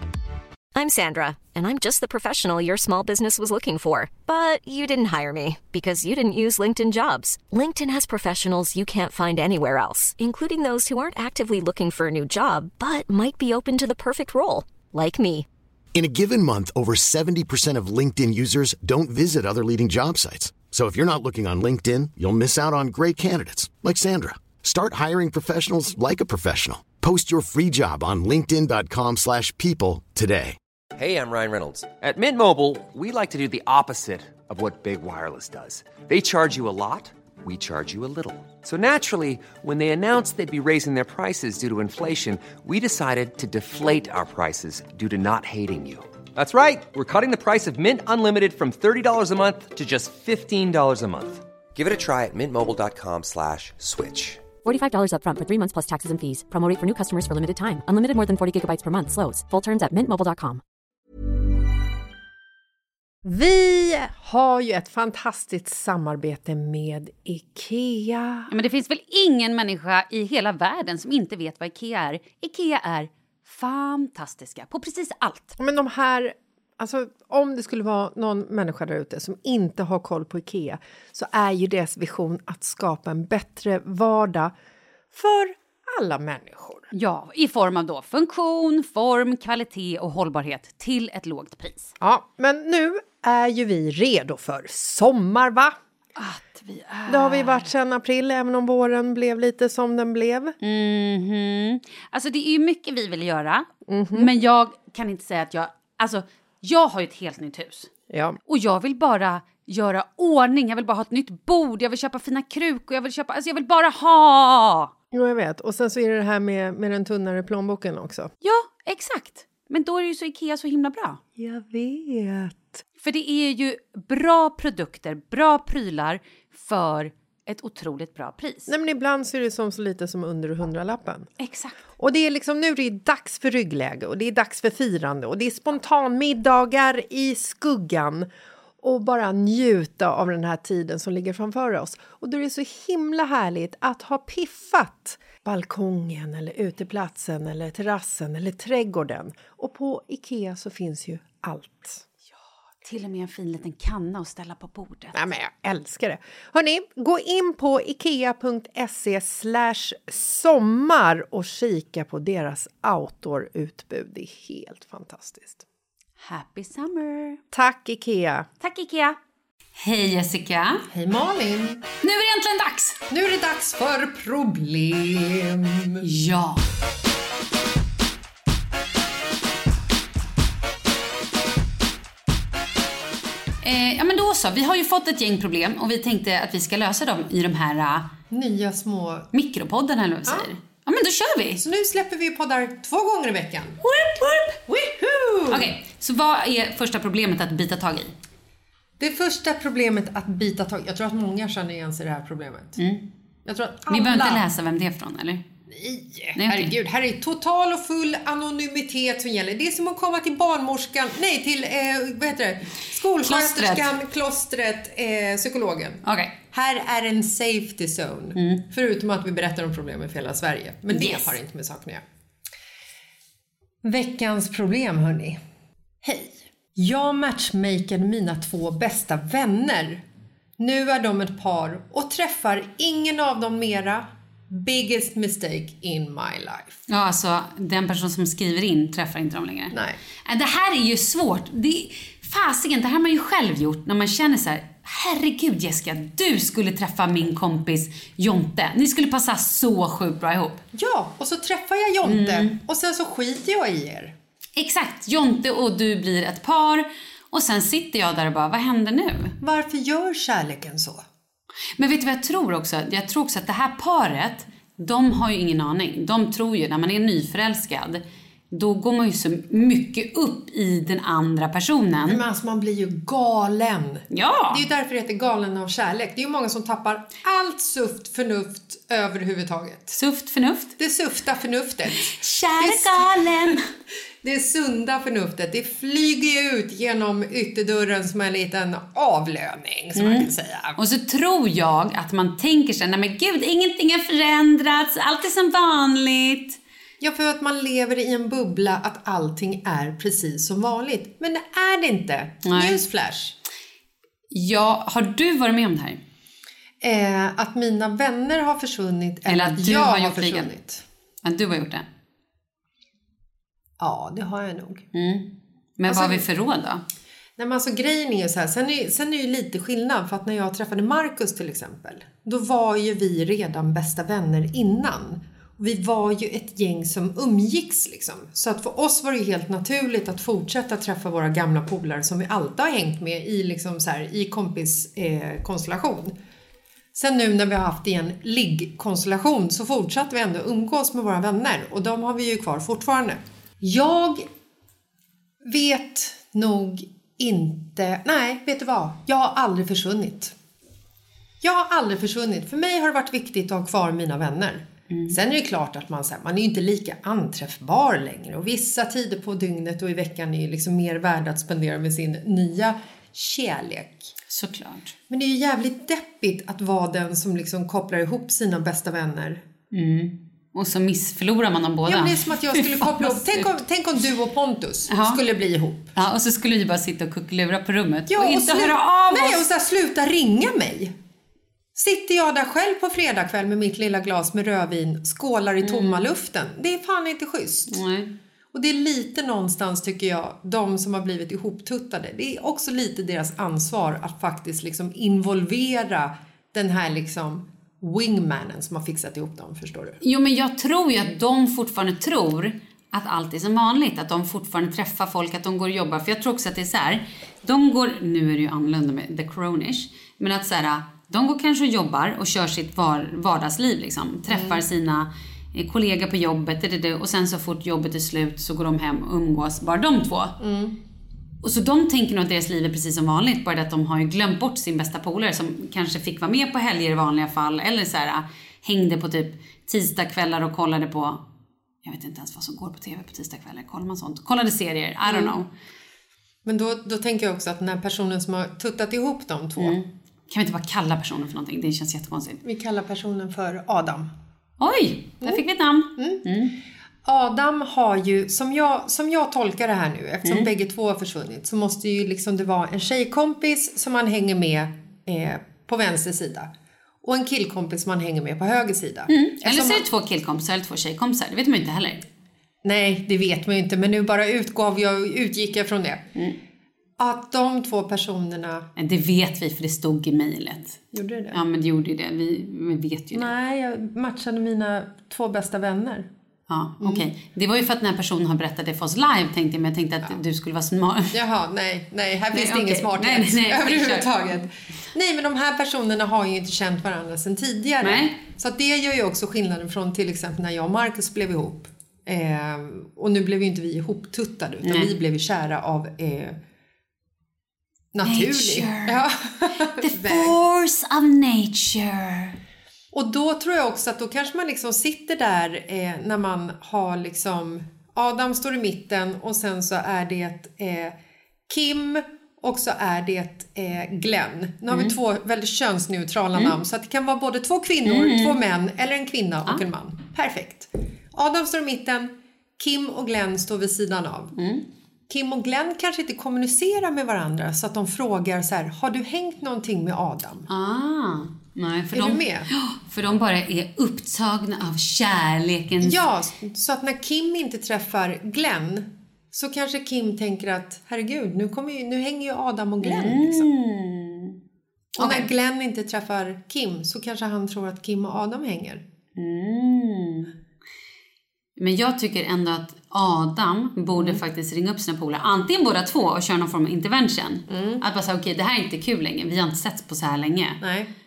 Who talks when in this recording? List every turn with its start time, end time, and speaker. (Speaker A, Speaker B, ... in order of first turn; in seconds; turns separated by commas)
Speaker A: 0.8-15.4, Speaker B: 15.9-30.6, Speaker C: 30.9-54.5, Speaker D: 54.6-60.6, Speaker E: 63.2-68.5, Speaker F: 68.5-75.5, Speaker E: 75.6-84.5, Speaker E: 85.1-86.9, Speaker F: 86.9-91.9, Speaker E: 92.0-95.7, Speaker F: 96.2-97.7, Speaker E: 97.1-100.5, Speaker F: 100.6-107.9, Speaker E: 103.9-104.3, Speaker E: 108.1-108.4, Speaker F: 108.5-114.9, Speaker E: 115.1-118.3, Speaker F: 118.4-121.2, Speaker E: 121.4-122.8, Speaker F: 123.0-128.7, Speaker E: 128.7-131.3, Speaker F: 131.4-131.8, Speaker E: 132.0-138.3, Speaker E: 138.8-152.0, Speaker F: 152.8-155.2, Speaker E: 155.1-165.6, Speaker F: 166.2-167.4, Speaker E: 167.5-168.5, Speaker F: 168.6-169.2, Speaker F: 169.8-170.8, Speaker E: 170.9-171.8, Speaker F: 172.0-173.0, Speaker E: 173.1-176.0, Speaker F: 176.0-176.6, Speaker F: 183.6-188.1, Speaker E: 188.3-189.3, Speaker F: 189.3-191.6, Speaker E: 191.6-193.8, Speaker F: 193.8-194.6, Speaker E: 194.7-195.7, Speaker F: 195.5-198.1, Speaker E: 199.0-202.8, Speaker F: 202.8-203.0, Speaker E: 203.4-204.4, Speaker F: 203.9-205.4, Speaker E: 205.7-222.0, Speaker F: 206.3-206.7, Speaker F: 213.2-213.9, Speaker F: 216.0-216.3, Speaker F: 220.9-221.3, Speaker E: 223.8-225.4, Speaker E: 226.0-230.0, Speaker E: 230.6-236.8, Speaker F: 236.9-250.6, Speaker E: 239.7-240.0, Speaker E: 250.7-254.1, Speaker F: 252.0-252.5, Speaker F: 254.6-259.3, Speaker E: 259.4-261.0, Speaker F: 261.8-272.2, Speaker E: 272.1-280.0, Speaker F: 274.1-274.6, Speaker F: 279.9-280.7, Speaker E: 280.8-283.6, Speaker F: 282.0-283.6, Speaker E: 284.2-290.8, Speaker F: 290.0-296.6, Speaker E: 297.0-303.4, Speaker F: 302.4-302.8, Speaker F: 304.3-306.0, Speaker E: 306.8-310.8, Speaker F: 309.2-310.5, Speaker F: 311.2-311.9, Speaker E: 313.8-314.8, Speaker F: 314.9-316.8, Speaker E: 315.9-316.3, Speaker E: 317.4-336.1, Speaker E: 336.9-344.2, Speaker E: 345.4-350.3, Speaker E: 351.4-364.1, Speaker F: 354.9-355.2, Speaker F: 364.3-364.9, Speaker E: 365.1-369.4, Speaker F: 369.7-373.6, Speaker E: 371.9-375.9, Speaker F: 374.9-375.2, Speaker F: 375.9-379.5, Speaker E: 378.1-380.9, Speaker E: 381.8-387.8, Speaker F: 385.6-386.1, Speaker F: 387.7-388.1, Speaker E: 388.5-400.0, Speaker F: 400.0-420.3, Speaker E: 414.3-414.6, Speaker E: 420.4-420.8, Speaker F: 421.4-431.2, Speaker F: 431.8-435.5, Speaker E: 435.0-435.4, Speaker E: 436.4-439.8, Speaker F: 439.6-442.4, Speaker E: 442.4-444.1, Speaker F: 444.6-446.5, Speaker E: 445.9-446.2, Speaker E: 447.0-456.5, Speaker F: 450.2-450.5, Speaker E: 457.0-459.9, Speaker F: 459.1-462.0, Speaker E: 462.6-466.1, Speaker E: 467.0-468.7, Speaker F: 468.8-470.8, Speaker E: 470.9-471.4, Speaker F: 471.3-473.3, Speaker E: 473.1-476.1, Speaker F: 476.5-481.2, Speaker E: 476.8-477.1, Speaker E: 481.1-496.4, Speaker F: 482.3-484.4, Speaker F: 487.8-488.2, Speaker F: 494.6-494.9, Speaker E: 497.9-500.3, Speaker F: 498.0-499.0, Speaker F: 499.7-502.3, Speaker E: 502.9-510.9, Speaker E: 511.5-524.3, Speaker F: 514.7-514.9, Speaker F: 517.8-518.4, Speaker F: 524.4-524.6, Speaker E: 525.1-530.5, Speaker F: 530.5-536.0, Speaker E: 531.9-532.5, Speaker E: 535.8-543.5, Speaker F: 542.8-544.4, Speaker E: 545.0-548.8, Speaker F: 545.0-545.3, Speaker F: 549.1-550.3, Speaker F: 551.6-560.6, Speaker E: 553.9-554.2, Speaker E: 557.5-557.8, Speaker E: 560.6-560.9